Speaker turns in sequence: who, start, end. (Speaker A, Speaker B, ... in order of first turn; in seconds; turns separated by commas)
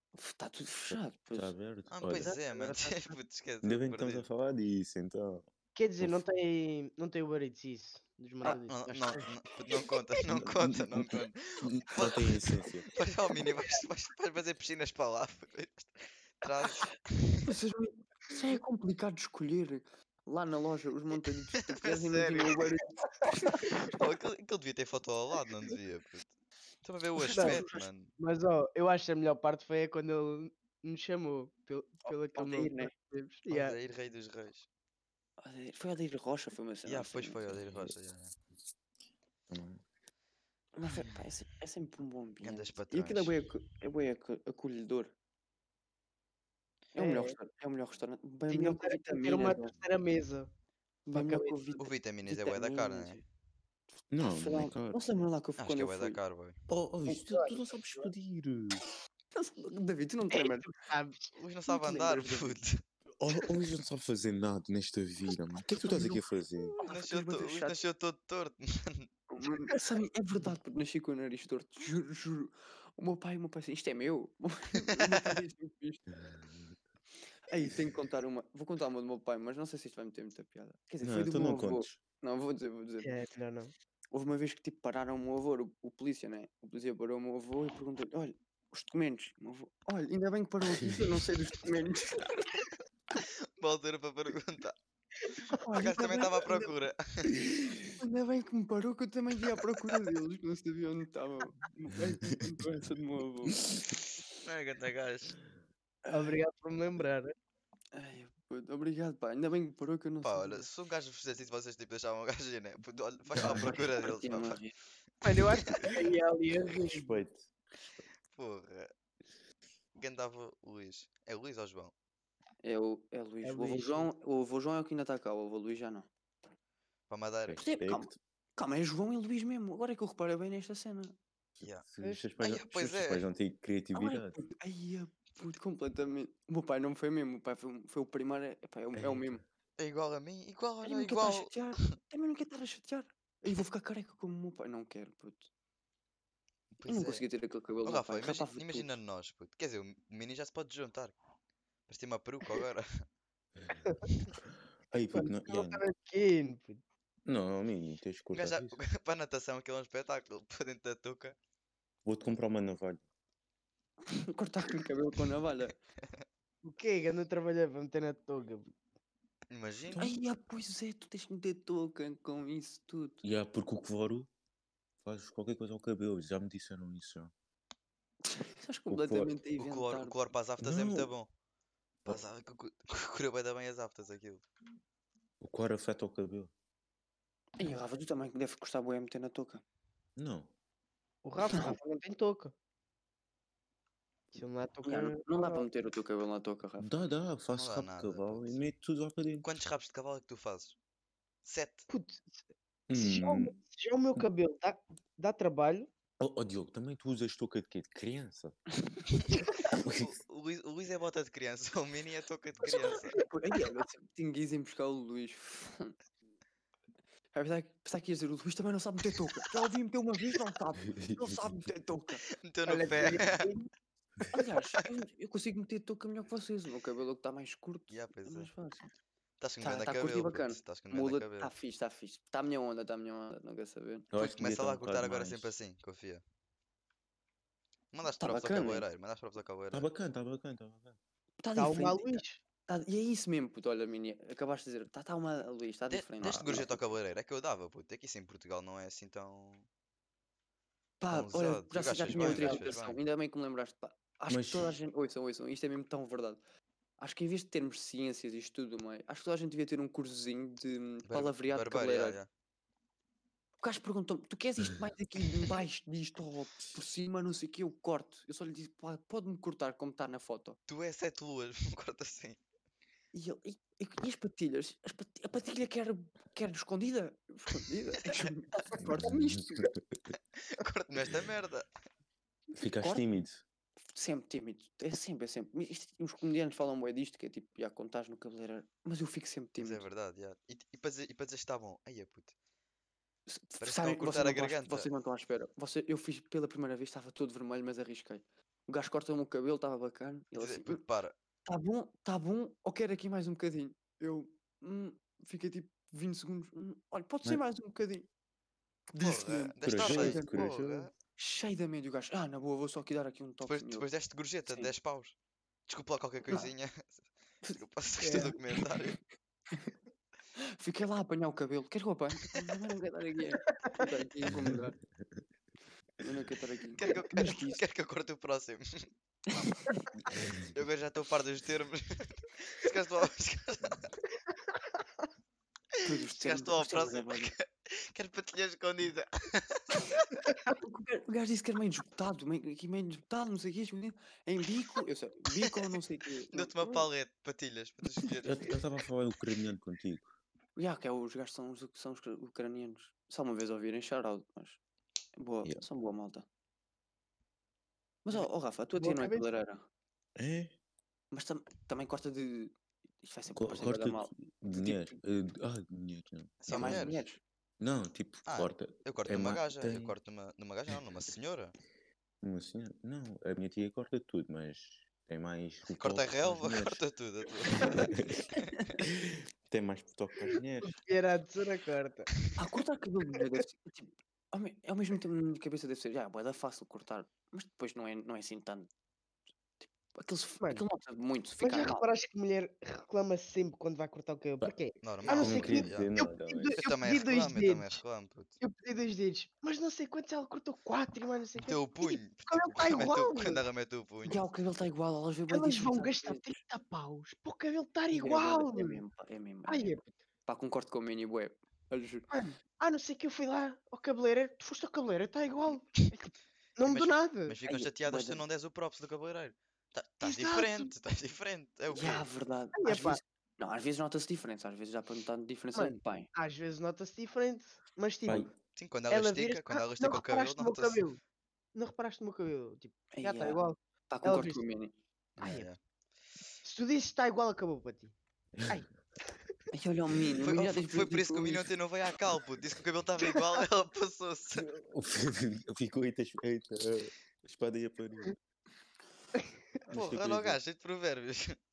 Speaker A: 0.1-1.5, Speaker B: 0.9-2.4, Speaker C: 1.9-4.2, Speaker A: 2.5-3.0, Speaker B: 3.6-5.5, Speaker D: 5.8-9.3, Speaker C: 8.4-12.4, Speaker A: 9.7-10.0, Speaker B: 10.3-12.9, Speaker C: 12.9-17.4, Speaker A: 17.4-23.8, Speaker C: 21.8-22.6, Speaker C: 23.6-26.3, Speaker C: 26.8-28.1, Speaker A: 27.2-27.9, Speaker D: 27.3-27.6, Speaker D: 28.2-33.8, Speaker A: 32.3-32.9, Speaker C: 33.5-34.6, Speaker A: 35.4-37.5, Speaker C: 36.9-38.3, Speaker B: 37.6-37.9, Speaker B: 39.5-39.8, Speaker A: 40.8-45.1, Speaker C: 42.4-43.4, Speaker A: 46.9-49.7, Speaker D: 47.0-47.4, Speaker D: 48.5-50.5, Speaker A: 51.1-53.2, Speaker D: 51.1-51.8, Speaker C: 51.8-53.2, Speaker B: 54.1-55.0, Speaker A: 54.2-56.2, Speaker C: 55.6-56.6, Speaker B: 56.7-58.8, Speaker D: 57.1-58.1, Speaker A: 59.3-60.7, Speaker D: 60.3-61.3, Speaker C: 61.4-62.8, Speaker A: 61.7-62.6, Speaker B: 63.2-66.7, Speaker A: 65.7-67.8, Speaker C: 66.8-69.1, Speaker A: 69.3-76.1, Speaker B: 76.1-76.8, Speaker A: 77.4-83.1, Speaker B: 81.0-82.0, Speaker D: 83.0-83.7, Speaker A: 84.1-92.7, Speaker C: 93.2-97.4, Speaker A: 95.6-96.8, Speaker A: 98.0-104.0, Speaker C: 104.4-105.3, Speaker D: 106.1-107.3, Speaker A: 107.9-110.6, Speaker C: 110.2-114.6, Speaker B: 113.3-113.8, Speaker A: 113.4-114.7, Speaker D: 115.2-117.2, Speaker C: 115.3-115.9, Speaker B: 116.7-117.4, Speaker C: 118.3-118.9, Speaker C: 120.0-121.9, Speaker A: 122.6-126.1, Speaker D: 123.4-124.1, Speaker C: 127.1-127.6, Speaker B: 127.5-128.2, Speaker A: 127.6-131.2, Speaker B: 131.6-134.4, Speaker D: 132.0-132.3, Speaker C: 132.4-133.2, Speaker A: 133.9-139.4, Speaker B: 138.9-139.4, Speaker C: 139.8-141.9, Speaker A: 140.8-145.5, Speaker C: 146.7-147.2, Speaker A: 146.8-148.9, Speaker C: 147.8-151.1, Speaker C: 151.9-152.9, Speaker B: 154.4-155.8, Speaker D: 155.1-156.8, Speaker B: 157.2-158.8, Speaker C: 158.3-161.3, Speaker B: 162.0-163.0, Speaker A: 164.1-165.8, Speaker D: 166.6-168.7, Speaker C: 169.5-170.1, Speaker A: 169.9-173.2, Speaker B: 173.2-174.3, Speaker B: 175.0-177.3, Speaker A: 178.2-180.3, Speaker B: 178.9-179.4, Speaker C: 179.6-181.3, Speaker B: 180.6-181.1, Speaker C: 182.0-184.4, Speaker B: 185.4-186.5, Speaker A: 187.6-189.6, Speaker B: 190.2-190.5, Speaker D: 191.2-192.5, Speaker A: 191.5-191.8, Speaker D: 194.3-195.7, Speaker A: 194.8-196.9, Speaker B: 196.8-199.5, Speaker C: 197.5-198.6, Speaker C: 199.4-200.7, Speaker C: 201.4-201.9, Speaker D: 201.9-202.4, Speaker B: 202.9-203.6, Speaker D: 202.9-205.9, Speaker B: 206.2-208.6, Speaker C: 209.3-213.2, Speaker B: 209.7-210.1, Speaker D: 212.9-213.2, Speaker A: 213.3-215.9, Speaker A: 217.3-222.2, Speaker C: 222.4-223.5, Speaker D: 222.7-223.7, Speaker A: 224.3-228.8, Speaker C: 227.9-228.5, Speaker C: 229.4-231.5, Speaker A: 229.6-234.1, Speaker B: 234.1-235.5, Speaker C: 234.1-236.2, Speaker C: 237.9-239.9, Speaker A: 238.2-238.8, Speaker B: 239.7-241.0, Speaker A: 241.4-246.8, Speaker D: 241.6-242.4, Speaker C: 245.9-249.7, Speaker A: 251.0-256.4, Speaker C: 251.1-253.0, Speaker D: 252.1-252.7, Speaker B: 254.3-254.7, Speaker A: 257.0-262.1, Speaker C: 261.1-262.3, Speaker A: 263.6-270.6, Speaker C: 270.7-272.4, Speaker A: 273.1-279.7, Speaker B: 279.0-279.4, Speaker C: 280.5-281.7, Speaker B: 282.6-283.4, Speaker A: 283.9-289.8, Speaker C: 289.6-292.3, Speaker A: 293.3-300.8, Speaker C: 293.6-294.9, Speaker C: 300.4-301.1, Speaker A: 301.4-308.1, Speaker A: 308.9-310.4, Speaker C: 309.0-310.9, Speaker B: 309.6-310.9, Speaker A: 311.1-313.9, Speaker C: 313.5-315.1, Speaker C: 315.7-317.0, Speaker A: 317.4-318.7, Speaker C: 317.5-319.0, Speaker D: 318.0-318.3, Speaker A: 320.4-324.8, Speaker B: 324.3-324.6, Speaker A: 326.0-327.6, Speaker C: 326.8-328.9, Speaker A: 329.3-329.8, Speaker B: 330.0-330.5, Speaker C: 330.4-333.9, Speaker C: 335.8-340.2, Speaker A: 335.8-337.3, Speaker A: 340.5-346.9, Speaker C: 346.3-348.6, Speaker B: 348.2-350.1, Speaker A: 350.6-354.6, Speaker A: 355.2-356.2, Speaker A: 358.0-359.6, Speaker D: 358.8-359.2, Speaker B: 360.1-360.5, Speaker A: 361.1-365.0, Speaker B: 363.4-366.9, Speaker C: 366.4-367.0, Speaker A: 366.5-367.2, Speaker B: 367.6-369.9, Speaker C: 368.2-371.5, Speaker B: 372.2-376.8, Speaker C: 375.7-377.9, Speaker B: 377.5-378.3, Speaker B: 378.8-380.8, Speaker D: 380.6-382.1, Speaker A: 382.4-388.7, Speaker A: 389.6-391.9, Speaker D: 391.4-397.8, Speaker C: 394.8-395.9, Speaker B: 395.1-396.6, Speaker C: 396.6-398.4, Speaker D: 398.4-403.4, Speaker C: 401.4-404.2, Speaker A: 404.0-406.3, Speaker D: 405.3-408.8, Speaker A: 407.9-412.1, Speaker D: 409.4-409.9, Speaker D: 412.1-417.4, Speaker C: 416.6-422.1, Speaker A: 417.4-418.2, Speaker D: 420.0-420.7, Speaker A: 421.7-426.1, Speaker D: 422.5-423.0, Speaker D: 425.5-428.3, Speaker B: 428.1-428.3, Speaker C: 428.6-430.9, Speaker D: 428.9-431.0, Speaker D: 431.5-434.4, Speaker A: 432.9-434.7, Speaker C: 435.2-435.6, Speaker D: 435.2-435.5, Speaker D: 436.4-437.9, Speaker B: 438.4-438.6, Speaker D: 438.5-439.3, Speaker A: 439.5-441.5, Speaker C: 440.2-444.5, Speaker B: 444.3-448.1, Speaker B: 449.7-450.4, Speaker C: 449.7-451.4